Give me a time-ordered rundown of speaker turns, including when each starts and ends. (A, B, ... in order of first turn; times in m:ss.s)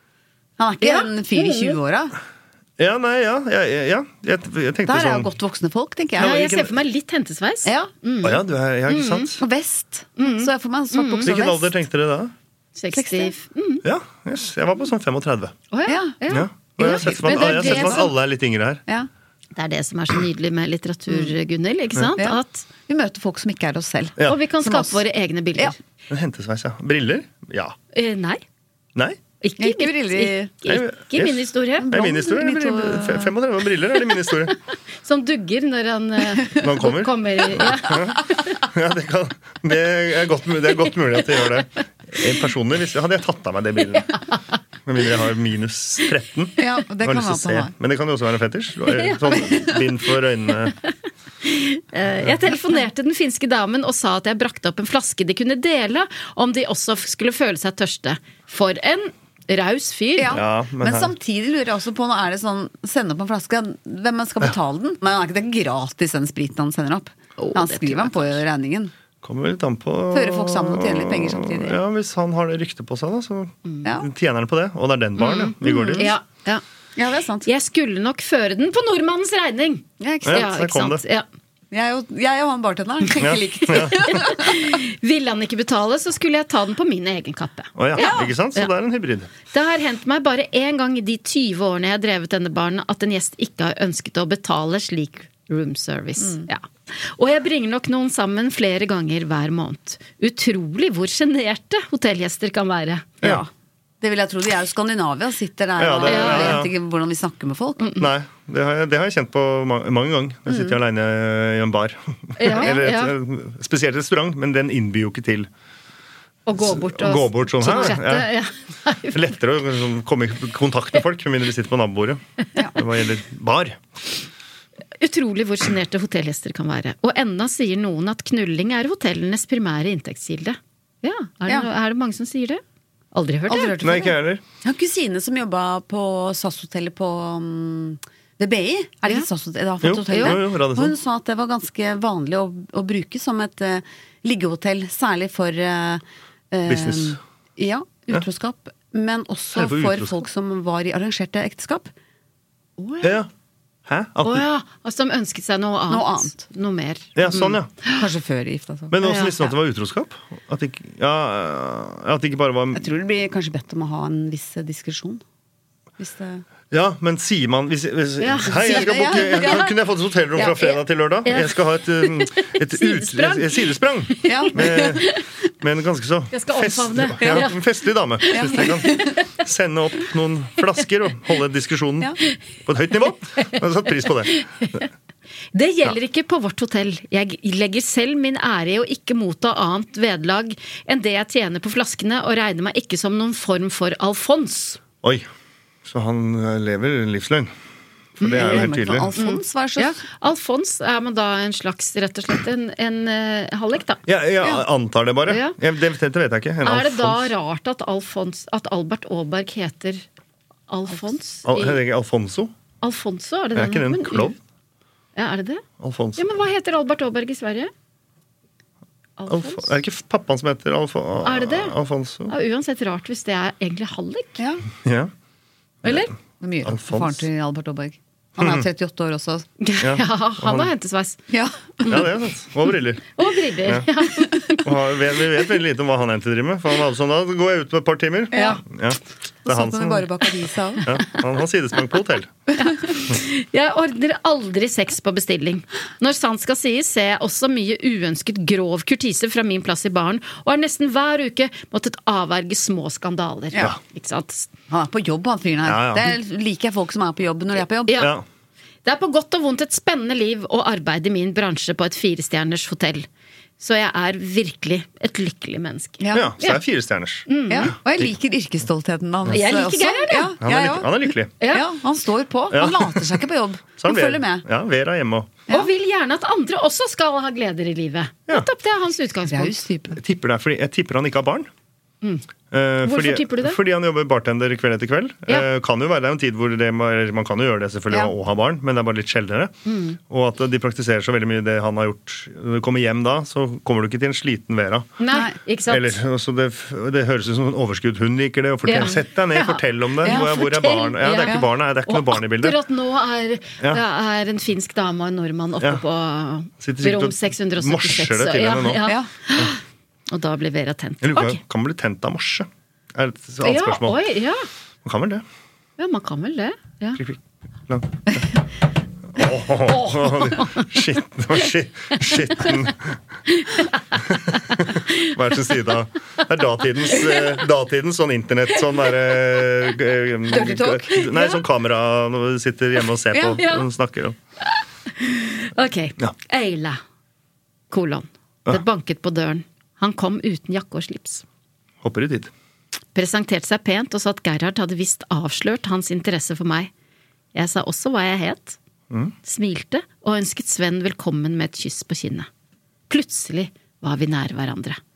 0:00.6-0:02.2 A
0:00.8-0:01.8 B
0:02.8-0:05.3 C
0:04.9-0:06.4 A
0:06.2-0:06.7 C
0:06.2-0:09.3 B
0:07.6-0:07.9 A
0:08.2-0:09.4 C
0:09.4-0:11.7 A
0:10.2-0:11.2 B
0:11.2-0:12.3 C
0:12.8-0:13.8 B
0:12.9-0:13.3 A
0:13.8-0:15.6 C
0:15.7-0:18.1 B
0:15.8-0:16.3 A
0:16.3-0:18.8 C
0:16.8-0:18.1 A
0:19.6-0:22.7 B
0:22.1-0:25.0 A
0:24.2-0:25.8 B
0:26.1-0:27.8 C
0:27.9-0:28.4 B
0:29.4-0:31.9 B
0:29.6-0:30.5 A
0:30.6-0:34.5 C
0:31.8-0:33.3 A
0:35.0-0:38.6 B
0:36.6-0:44.2 C
0:44.0-0:44.4 B
0:44.8-0:50.7 C
0:46.6-0:47.7 A
0:49.0-0:49.3 B
0:51.4-1:00.4 B
1:00.2-1:08.9 A
1:00.3-1:01.1 C
1:07.4-1:08.4 B
1:09.2-1:16.1 C
1:10.1-1:11.8 A
1:15.2-1:16.6 B
1:15.6-1:16.1 A
1:17.0-1:17.5 A
1:17.4-1:21.2 B
1:20.0-1:20.5 A
1:20.2-1:21.0 C
1:21.7-1:24.6 A
1:23.2-1:24.0 C
1:23.9-1:28.7 B
1:27.8-1:29.3 C
1:28.0-1:28.3 A
1:29.5-1:43.5 B
1:36.2-1:36.4 A
1:44.0-1:48.0 A
1:45.8-1:46.7 C
1:46.0-1:46.6 B
1:48.0-1:55.5 C
1:50.5-1:50.8 A
1:52.4-1:53.1 B
1:56.4-1:59.3 B
1:56.6-1:58.3 C
1:59.1-2:02.2 C
2:02.8-2:03.8 C
2:05.0-2:12.6 B
2:13.1-2:13.7 B
2:13.5-2:31.9 A
2:13.8-2:14.4 C
2:19.8-2:20.9 C
2:20.1-2:20.4 B
2:26.6-2:27.2 C
2:29.5-2:30.2 C
2:32.8-2:33.1 B
2:33.0-2:33.3 C
2:33.9-2:34.4 C
2:34.2-2:38.0 B
2:35.9-2:36.4 A
2:37.2-2:37.7 C
2:37.8-2:39.2 A
2:38.9-2:42.8 C
2:39.0-2:39.5 B
2:42.7-2:45.2 A
2:46.0-2:46.4 A
2:46.7-2:55.1 C
2:48.2-2:49.7 B
2:48.5-2:49.7 A
2:50.4-2:50.8 A
2:51.2-2:55.2 B
2:54.2-2:55.0 A
2:55.6-3:02.1 C
2:56.3-2:57.6 B
2:58.2-2:59.2 B
2:58.3-2:59.1 A
3:02.6-3:04.4 C
3:04.3-3:04.9 B
3:05.5-3:14.8 B
3:15.8-3:17.5 C
3:18.2-3:19.1 C
3:18.2-3:24.0 B
3:18.4-3:20.0 A
3:24.0-3:27.3 C
3:25.3-3:25.6 B
3:26.6-3:30.0 B
3:30.7-3:31.8 B
3:31.4-3:32.5 C
3:32.8-3:34.3 B
3:33.5-3:34.4 C
3:35.2-3:35.6 B
3:35.8-3:36.2 C
3:36.2-3:37.7 B
3:39.2-3:39.7 B
3:39.3-3:42.3 C
3:41.2-3:41.7 B
3:42.3-3:44.4 B
3:44.4-3:44.6 A
3:44.8-3:45.1 C
3:45.8-3:46.1 B
3:46.4-3:49.4 A
3:46.6-3:47.2 C
3:48.4-3:48.6 C
3:49.6-3:51.2 B
3:49.8-3:50.7 C
3:51.8-3:52.0 B
3:51.9-3:53.1 C
3:53.2-3:54.6 B
3:54.6-4:00.1 C
3:58.3-3:58.6 A
3:58.3-3:58.6 B
3:59.4-4:00.8 A
4:00.8-4:02.3 C
4:02.6-4:14.5 B
4:14.7-4:18.0 A
4:15.6-4:16.2 C
4:18.0-4:18.2 C
4:18.8-4:23.1 B
4:23.6-4:26.6 B
4:26.0-4:26.3 A
4:26.1-4:28.1 C
4:27.3-4:27.7 B
4:27.5-4:34.4 A
4:29.3-4:30.3 B
4:30.4-4:31.3 C
4:32.5-4:33.2 C
4:33.8-4:35.3 C
4:35.5-4:39.5 B
4:39.3-4:40.0 A
4:40.0-4:41.5 C
4:42.5-4:49.5 C
4:42.8-4:43.6 B
4:49.6-4:50.0 B
4:50.1-4:54.9 C
4:55.0-4:56.0 B
4:55.7-5:02.6 C
4:58.6-5:11.4 B
5:00.0-5:00.3 A
5:06.6-5:09.5 C
5:11.0-5:14.0 C
5:13.4-5:14.4 B
5:14.8-5:15.2 C
5:15.8-5:17.0 B
5:17.0-5:18.2 C
5:19.2-5:23.0 C
5:19.7-5:20.7 B
5:22.1-5:22.4 B
5:23.3-5:24.9 B
5:24.1-5:34.2 C
5:30.3-5:31.3 A
5:33.1-5:33.4 A
5:33.4-5:33.6 B
5:34.6-5:36.8 B
5:37.7-5:41.2 B
5:41.8-5:42.3 C
5:42.9-5:46.7 B
5:47.3-5:48.6 B
5:49.2-5:52.3 B
5:52.9-5:54.8 B